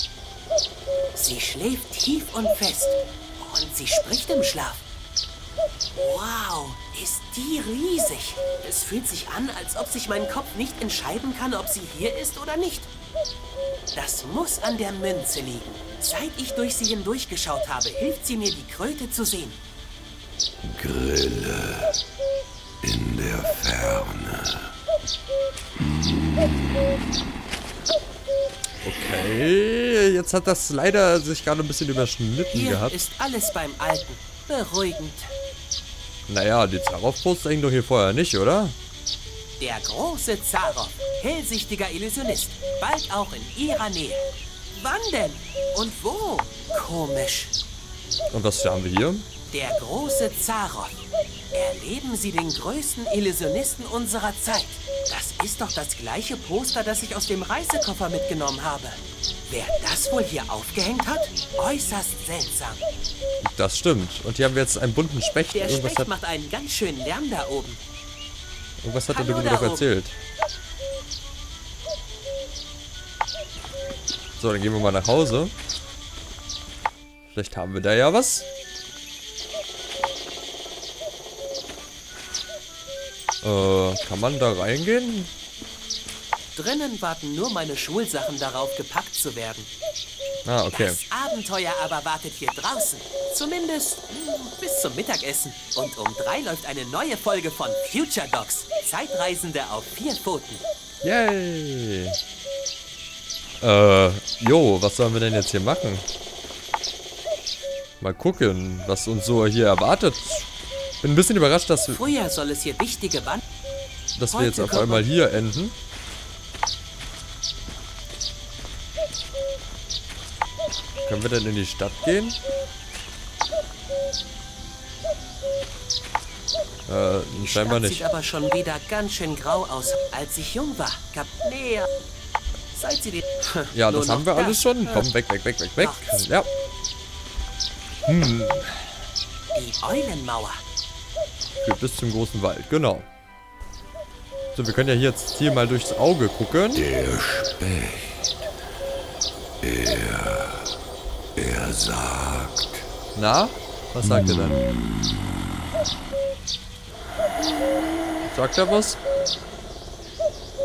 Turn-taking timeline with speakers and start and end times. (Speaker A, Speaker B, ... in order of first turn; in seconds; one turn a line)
Speaker A: 1.1-4.8
Speaker A: 6.0-12.9
Speaker A: 13.9-19.6
Speaker B: 20.6-21.9
Speaker B: 22.8-24.7
Speaker B: 25.8-27.1
Speaker C: 28.8-33.0
Speaker A: 32.5-35.3
Speaker C: 36.3-38.8
Speaker A: 39.6-47.5
Speaker C: 48.3-49.3
Speaker A: 49.5-51.0
Speaker A: 51.5-62.9
Speaker C: 63.4-66.1
Speaker A: 65.5-67.8
Speaker C: 68.8-70.2
Speaker A: 69.1-69.9
Speaker C: 74.4-75.5
Speaker C: 77.3-78.5
Speaker C: 83.4-85.3
Speaker A: 86.5-89.7
Speaker C: 90.5-91.0
Speaker A: 90.7-100.6
Speaker C: 101.0-102.2
Speaker C: 103.6-106.0
Speaker C: 108.0-110.5
Speaker C: 111.0-112.0
Speaker A: 111.9-113.4
Speaker C: 114.2-115.8
Speaker A: 114.3-115.1
Speaker C: 121.0-122.4
Speaker C: 126.9-128.1
Speaker A: 127.3-131.9
Speaker A: 132.7-135.1
Speaker C: 133.7-136.5
Speaker A: 135.8-136.2
Speaker C: 138.1-138.9
Speaker A: 139.5-140.6
Speaker C: 141.6-143.1
Speaker C: 144.6-146.8
Speaker B: 146.8-148.3
Speaker B: 149.6-150.7
Speaker B: 151.4-152.9
Speaker C: 153.2-154.6
Speaker B: 154.0-155.4
Speaker C: 158.2-159.0